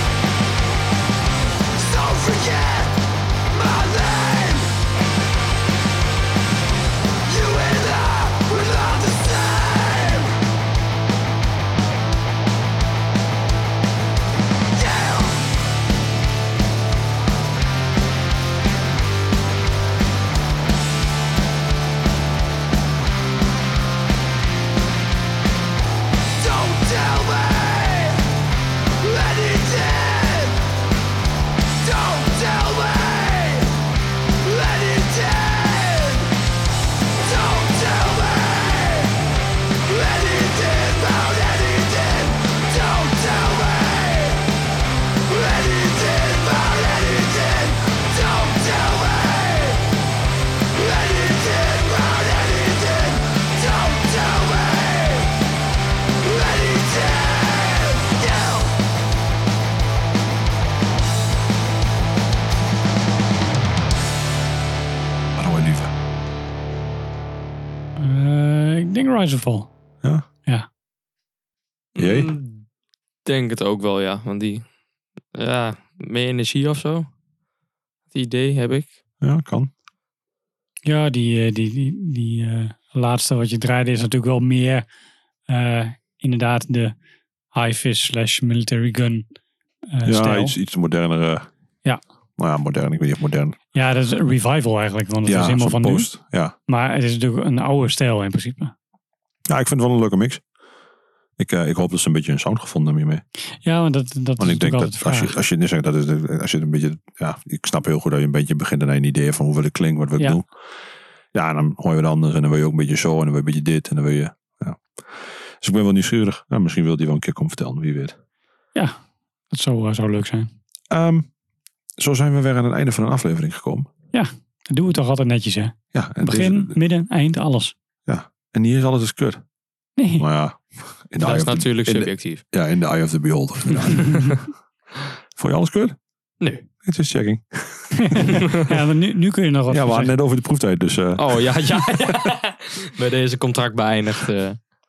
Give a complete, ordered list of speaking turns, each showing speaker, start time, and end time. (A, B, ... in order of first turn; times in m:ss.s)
0:01.7-0:03.0 A
0:03.5-0:04.7 A
0:07.2-0:10.3 A
0:14.7-0:15.4 A
0:26.3-0:28.2 A
0:29.0-0:30.6 A
0:31.8-0:33.8 A
0:34.4-0:36.3 A
0:37.2-0:39.2 A
0:39.8-0:44.4 A
0:45.3-0:49.9 A
0:50.7-0:55.3 A
0:56.2-0:58.7 A
1:05.4-1:05.9 B
1:08.0-1:09.7 C
1:11.9-1:12.6 D
1:12.0-1:12.3 B
1:13.2-1:14.7 D
1:15.3-1:17.1 D
1:18.1-1:18.9 D
1:19.2-1:19.7 B
1:20.8-1:24.8 C
1:25.5-1:26.9 C
1:27.5-1:29.2 C
1:29.9-1:30.5 C
1:30.0-1:31.5 B
1:32.4-1:33.6 B
1:33.7-1:36.1 C
1:35.2-1:36.5 B
1:36.7-1:38.7 C
1:39.5-1:40.4 B
1:41.4-1:43.2 B
1:43.6-1:45.3 C
1:44.4-1:50.4 B
1:51.3-1:55.0 B
1:55.6-1:58.2 B
1:59.5-2:00.5 C
2:00.9-2:01.3 B
2:02.0-2:03.9 B
2:04.1-2:07.7 C
2:05.9-2:06.8 B
2:08.1-2:09.4 B
2:10.0-2:10.2 C
2:10.2-2:14.5 B
2:11.2-2:12.4 D
2:13.8-2:14.4 D
2:15.4-2:16.0 B
2:16.4-2:16.6 D
2:16.8-2:18.4 B
2:18.0-2:20.1 C
2:18.4-2:18.8 D
2:19.7-2:21.8 B
2:21.2-2:24.6 D